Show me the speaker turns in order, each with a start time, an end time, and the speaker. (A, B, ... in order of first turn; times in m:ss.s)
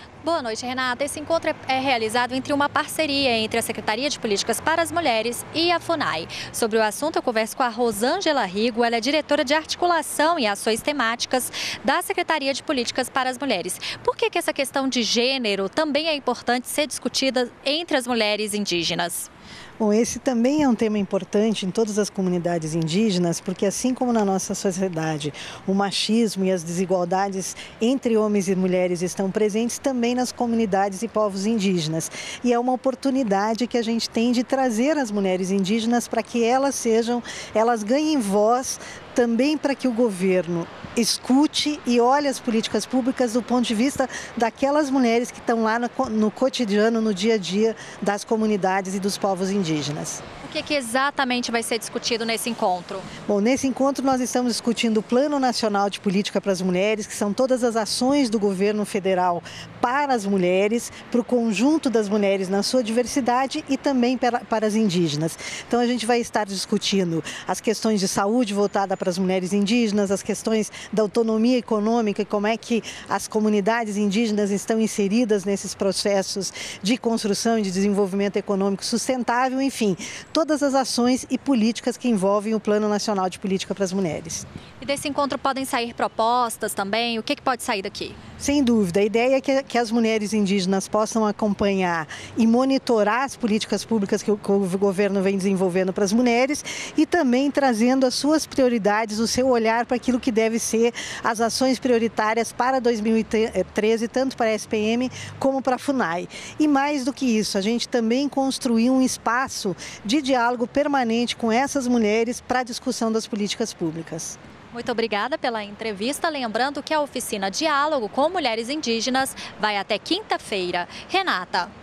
0:00.2-0:19.3 A
0:19.8-0:50.2 B
0:50.4-0:53.1 A
0:53.3-1:24.4 B
1:24.8-1:28.2 A
1:28.4-1:54.4 B
1:54.7-2:01.7 A